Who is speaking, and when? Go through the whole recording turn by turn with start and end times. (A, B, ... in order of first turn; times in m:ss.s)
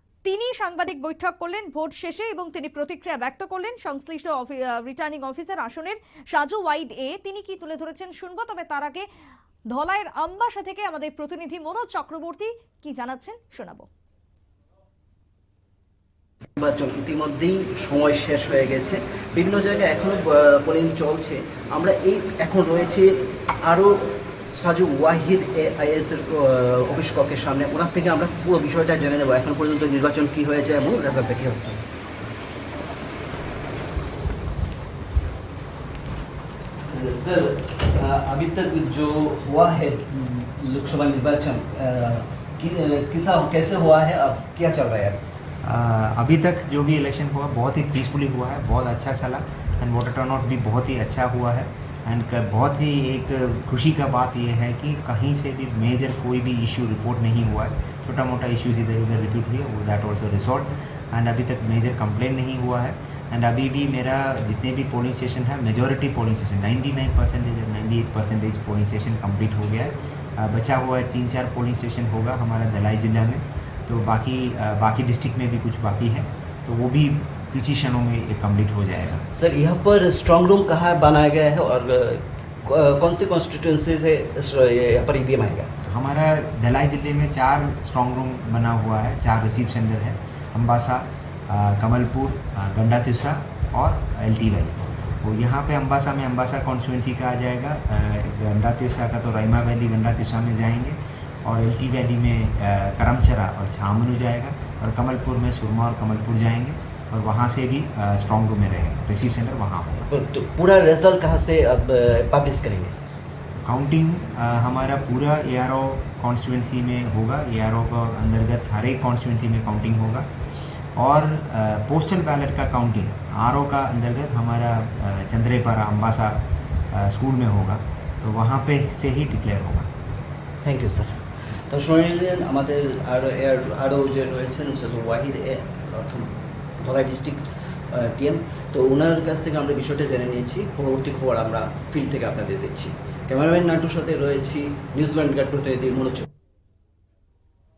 0:00.2-0:09.0 A
0:09.7-0:13.9 A
0:16.6-0:31.8 B
0:36.9-0:45.2 B
0:45.6-1:19.2 C
1:19.3-1:25.7 B
1:25.8-1:50.1 C
1:50.1-1:53.0 B
1:53.6-2:00.3 C
2:01.0-2:09.9 C
2:10.6-2:26.3 B